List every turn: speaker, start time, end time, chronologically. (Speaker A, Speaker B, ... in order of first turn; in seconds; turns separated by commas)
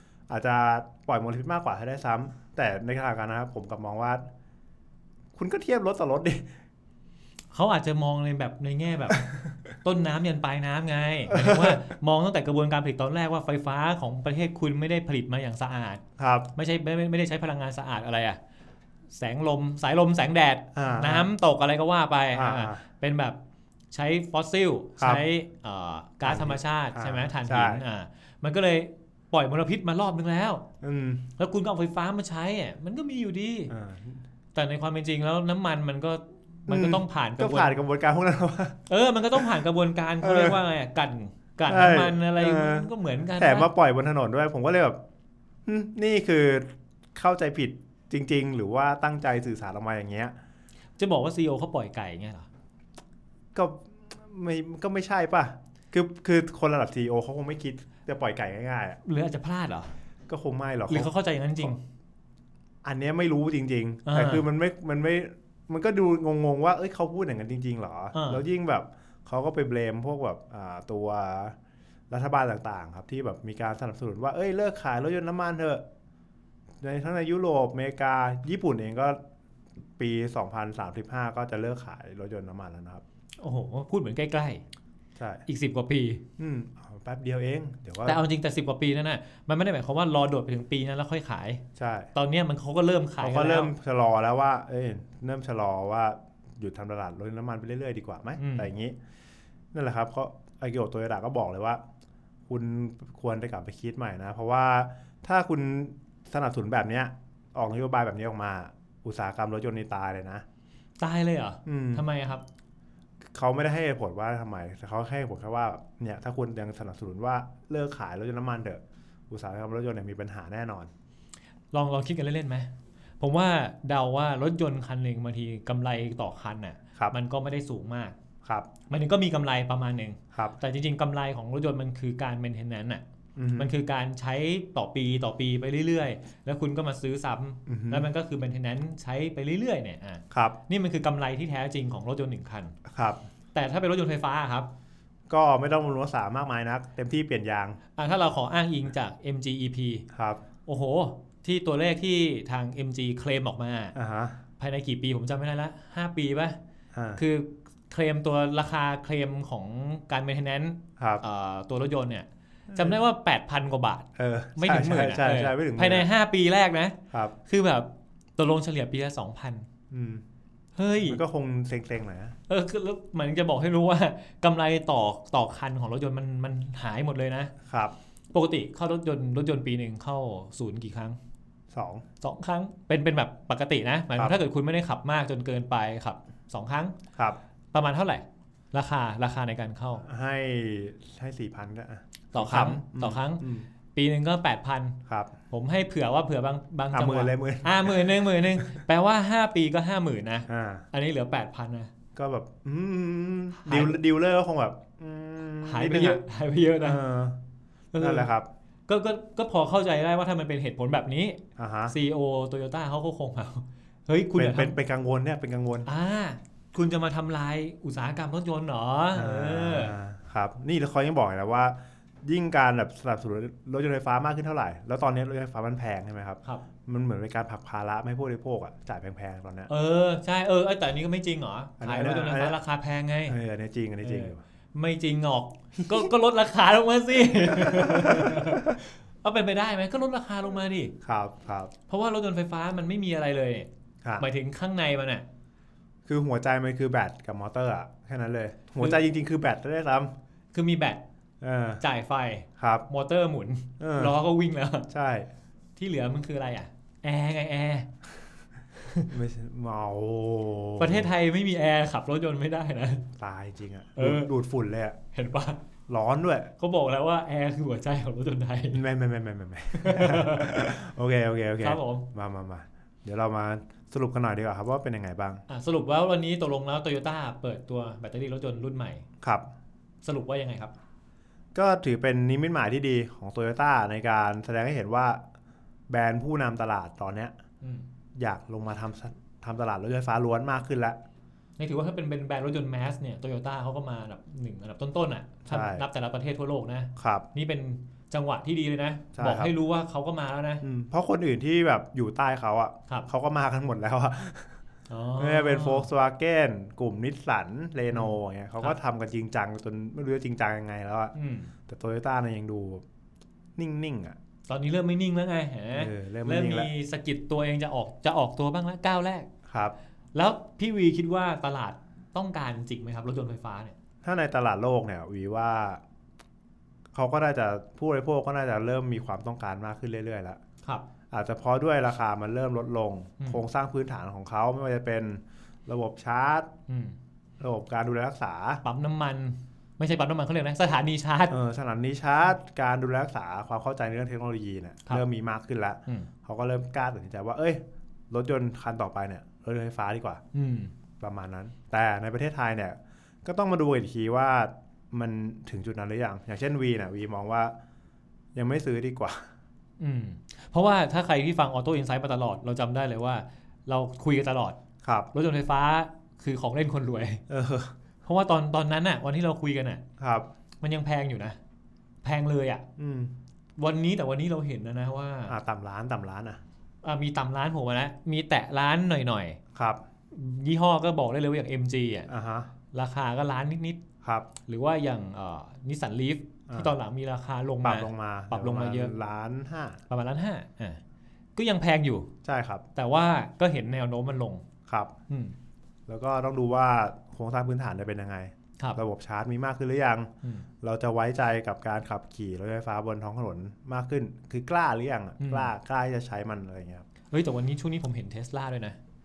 Speaker A: 0.3-4.3, Speaker A: 5.4-6.5, Speaker B: 7.5-16.0, Speaker A: 11.3-11.8, Speaker A: 16.2-16.5, Speaker B: 16.6-18.4, Speaker B: 19.1-23.4, Speaker A: 20.7-21.3, Speaker A: 22.3-22.8, Speaker B: 23.9-30.6, Speaker A: 25.0-25.3, Speaker A: 26.2-27.8, Speaker A: 30.8-31.3, Speaker B: 31.4-33.7, Speaker A: 33.7-34.2, Speaker B: 34.5-37.8, Speaker A: 36.7-38.8, Speaker B: 38.9-43.7, Speaker A: 39.3-39.6, Speaker A: 40.2-40.7, Speaker A: 41.7-45.0, Speaker A: 45.7-50.4, Speaker B: 51.0-52.5, Speaker A: 53.5-59.0, Speaker B: 59.0-59.9, Speaker A: 60.3-61.8, Speaker B: 60.9-61.8, Speaker A: 62.9-71.5, Speaker B: 64.1-64.5, Speaker B: 68.1-68.4, Speaker A: 72.1-75.8, Speaker A: 76.8-79.2, Speaker A: 80.0-83.0, Speaker B: 83.4-84.6, Speaker A: 85.2-85.4, Speaker B: 85.5-86.2, Speaker A: 86.4-88.2, Speaker B: 88.0-91.6, Speaker A: 91.8-92.1, Speaker B: 92.1-93.7, Speaker A: 93.2-99.0, Speaker B: 98.4-98.7, Speaker A: 99.7-101.8, Speaker A: 102.5-110.4, Speaker B: 111.0-112.4, Speaker A: 111.7-112.1, Speaker A: 113.3-120.9, Speaker B: 121.7-128.2, Speaker A: 128.4-128.7, Speaker B: 128.9-133.0, Speaker A: 133.4-133.7, Speaker B: 133.6-142.8, Speaker A: 137.7-138.1, Speaker A: 140.3-140.6, Speaker A: 142.9-143.2, Speaker B: 143.5-144.7, Speaker A: 145.3-147.8, Speaker B: 148.0-150.1, Speaker A: 150.1-150.4, Speaker B: 150.7-153.9, Speaker A: 153.9-154.4, Speaker B: 154.6-156.6, Speaker A: 156.9-157.2, Speaker B: 157.2-169.7, Speaker A: 161.0-161.2, Speaker A: 162.7-163.0, Speaker A: 164.2-166.1, Speaker A: 169.9-170.2, Speaker B: 170.8-171.2, Speaker A: 171.0-172.3, Speaker B: 172.5-177.5, Speaker A: 177.7-177.9, Speaker B: 178.3-181.2, Speaker A: 181.7-182.1, Speaker B: 182.2-187.0, Speaker B: 187.7-190.0, Speaker A: 190.0-193.7, Speaker B: 192.3-201.9, Speaker A: 195.1-195.3, Speaker A: 196.9-198.8, Speaker A: 200.5-200.9, Speaker A: 202.2-206.2, Speaker B: 203.6-204.0, Speaker B: 205.6-207.0, Speaker A: 206.8-207.4, Speaker B: 207.9-208.3, Speaker A: 208.0-208.5, Speaker B: 208.9-214.8, Speaker A: 211.6-212.0, Speaker A: 214.4-215.9, Speaker B: 215.9-219.9, Speaker A: 219.1-229.7, Speaker B: 229.7-233.4, Speaker A: 231.8-232.6, Speaker A: 233.3-234.4, Speaker B: 234.0-240.9, Speaker A: 237.6-238.8, Speaker A: 241.0-241.7, Speaker B: 241.9-245.2, Speaker A: 246.1-250.1, Speaker B: 250.5-251.0, Speaker A: 251.4-251.8, Speaker B: 251.8-254.9, Speaker A: 252.6-252.9, Speaker A: 253.8-254.2, Speaker A: 254.9-255.3, Speaker B: 255.8-257.9, Speaker A: 259.1-261.1, Speaker B: 260.8-263.0, Speaker A: 263.2-265.0, Speaker B: 264.0-264.3, Speaker B: 265.1-265.6, Speaker A: 265.9-266.5, Speaker B: 266.6-268.8, Speaker A: 268.7-275.4, Speaker B: 269.8-270.6, Speaker B: 271.6-272.1, Speaker B: 275.5-279.1, Speaker A: 279.2-279.5, Speaker B: 280.0-280.7, Speaker A: 281.6-285.2, Speaker A: 285.9-287.4, Speaker B: 287.6-287.9, Speaker A: 288.2-291.0, Speaker B: 291.6-300.6, Speaker A: 295.5-295.9, Speaker A: 297.0-297.3, Speaker A: 299.1-299.5, Speaker A: 300.6-304.5, Speaker B: 304.9-305.9, Speaker A: 305.2-311.1, Speaker B: 307.9-308.7, Speaker B: 311.1-311.5, Speaker A: 311.7-312.8, Speaker A: 313.6-314.2, Speaker B: 314.5-319.3, Speaker A: 315.7-316.7, Speaker A: 319.5-319.8, Speaker B: 320.1-323.8, Speaker A: 324.0-325.8, Speaker A: 326.9-330.4, Speaker A: 331.1-336.5, Speaker B: 336.7-337.0, Speaker A: 337.4-338.6, Speaker B: 338.6-341.4, Speaker A: 341.3-350.2, Speaker B: 350.3-350.7, Speaker A: 351.0-357.5, Speaker A: 358.4-359.3, Speaker B: 359.8-364.6, Speaker A: 364.8-365.1, Speaker B: 365.1-367.2, Speaker A: 367.3-367.7, Speaker B: 368.0-369.8, Speaker A: 370.0-370.3, Speaker B: 370.6-371.4, Speaker B: 372.0-372.6, Speaker A: 372.8-373.1, Speaker B: 373.6-375.4, Speaker A: 375.3-376.4, Speaker B: 376.8-379.4, Speaker A: 379.6-379.8, Speaker B: 380.1-382.1, Speaker A: 382.1-382.5, Speaker B: 382.7-383.8, Speaker A: 384.0-384.3, Speaker B: 384.4-388.9, Speaker A: 386.5-386.7, Speaker A: 387.6-389.8, Speaker B: 389.9-390.8, Speaker B: 391.4-392.1, Speaker A: 392.2-392.6, Speaker B: 392.8-394.4, Speaker A: 394.7-394.9, Speaker B: 395.1-395.4, Speaker A: 395.9-400.1, Speaker A: 400.6-406.9, Speaker B: 405.2-405.5, Speaker B: 407.1-408.8